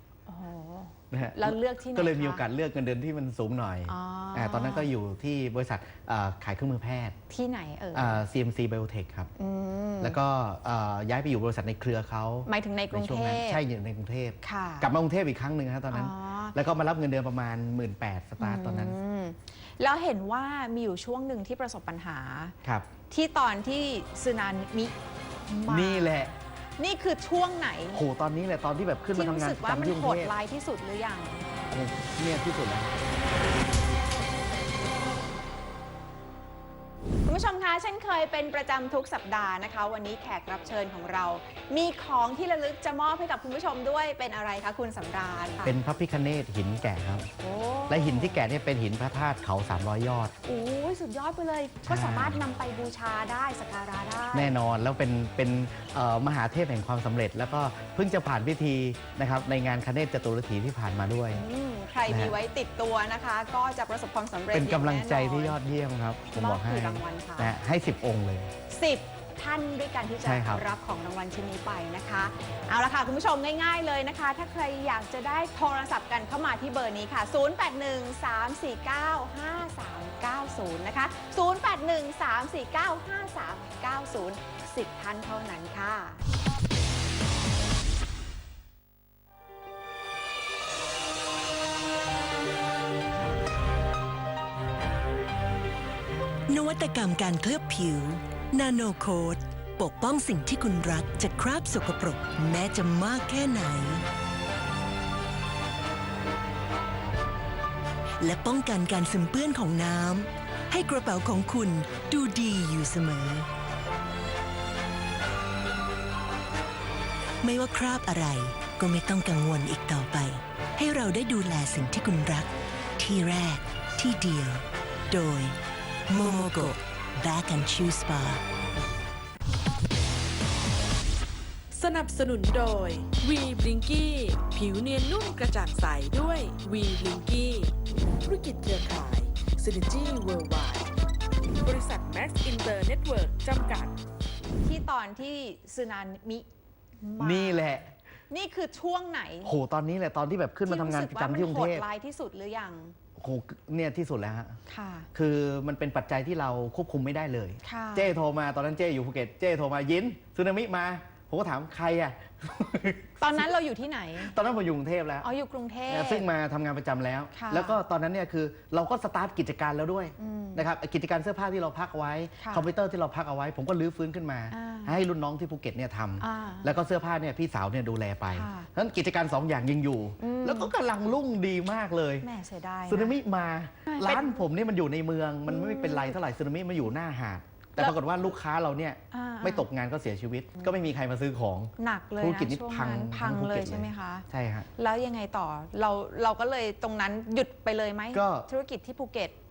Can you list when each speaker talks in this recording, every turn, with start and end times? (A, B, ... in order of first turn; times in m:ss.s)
0:00.3-0:02.4 A
0:01.1-0:07.2 B
0:03.9-0:04.9 A
0:07.3-0:08.2 A
0:07.9-0:09.3 B
0:09.4-0:10.2 A
0:10.0-0:19.0 B
0:12.4-0:13.6 A
0:14.4-0:14.9 A
0:15.9-0:16.6 A
0:18.4-0:22.5 A
0:22.6-0:22.9 B
0:23.1-0:28.0 A
0:25.7-0:26.3 B
0:27.9-0:30.3 B
0:29.1-0:31.5 A
0:31.7-0:32.9 B
0:37.2-0:45.8 A
0:45.6-0:47.3 B
0:47.4-0:48.4 A
0:47.9-0:50.3 B
0:50.4-0:54.5 A
0:51.8-0:52.4 B
0:54.3-1:01.4 B
1:01.3-1:05.6 A
1:02.1-1:02.3 B
1:04.5-1:08.5 B
1:06.3-1:07.5 A
1:08.7-1:26.2 A
1:10.2-1:10.6 B
1:36.5-1:44.0 C
1:48.2-1:53.5 C
1:57.4-2:05.5 C
2:06.1-2:08.4 C
2:06.2-2:06.7 D
2:11.7-2:20.9 D
2:21.6-2:24.0 D
2:24.6-2:26.4 A
2:27.0-2:27.8 A
2:27.2-2:27.9 B
2:28.3-2:29.5 A
2:29.4-2:31.8 B
2:30.7-2:32.9 A
2:33.2-2:34.6 B
2:34.7-2:35.1 A
2:35.1-2:43.4 B
2:37.6-2:38.1 A
2:43.2-2:44.3 A
2:44.2-2:45.3 B
2:45.2-2:46.2 A
2:45.9-3:02.3 B
2:47.3-2:47.8 A
2:50.2-2:50.6 A
2:52.4-2:52.7 A
2:54.5-2:55.0 A
2:56.2-2:56.7 A
2:58.3-2:58.7 A
3:00.2-3:00.7 A
3:02.2-3:03.1 A
3:02.9-3:14.7 B
3:03.8-3:04.4 A
3:05.5-3:06.2 A
3:09.1-3:09.7 A
3:11.8-3:14.2 A
3:14.8-3:19.3 A
3:18.1-3:18.5 B